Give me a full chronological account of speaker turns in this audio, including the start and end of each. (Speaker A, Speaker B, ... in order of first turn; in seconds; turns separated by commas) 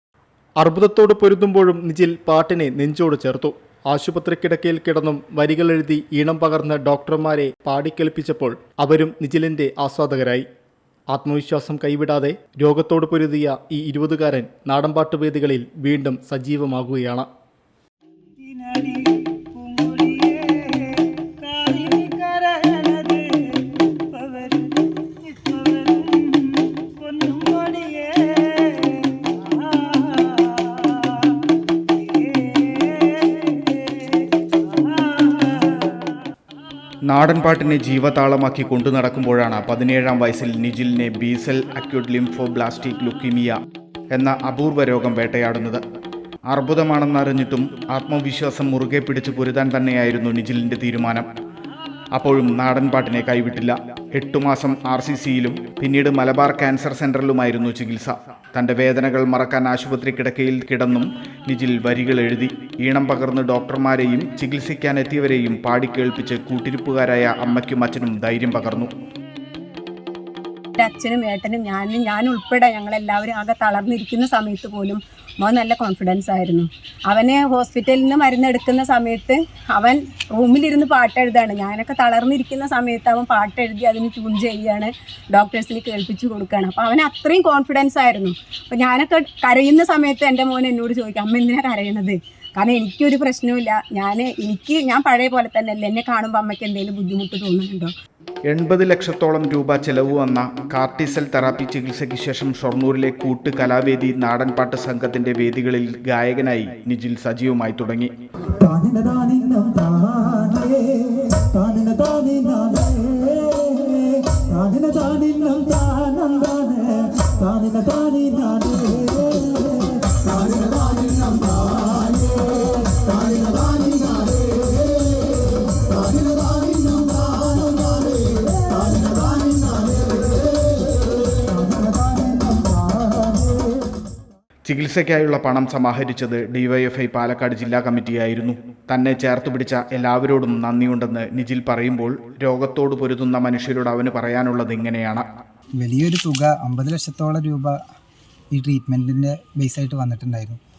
Speaker A: 0.6-10.4, Speaker A: 11.1-17.3, Speaker B: 21.7-22.7, Speaker B: 27.1-28.0, Speaker C: 37.1-43.5, Speaker C: 44.1-45.8, Speaker C: 46.5-51.2, Speaker C: 52.1-68.9, Speaker D: 70.8-97.9, Speaker C: 98.5-108.1, Speaker E: 108.8-110.6, Speaker E: 111.6-112.8, Speaker E: 114.5-117.0, Speaker E: 117.6-118.7, Speaker C: 134.6-145.2, Speaker B: 145.8-147.8, Speaker B: 148.5-150.6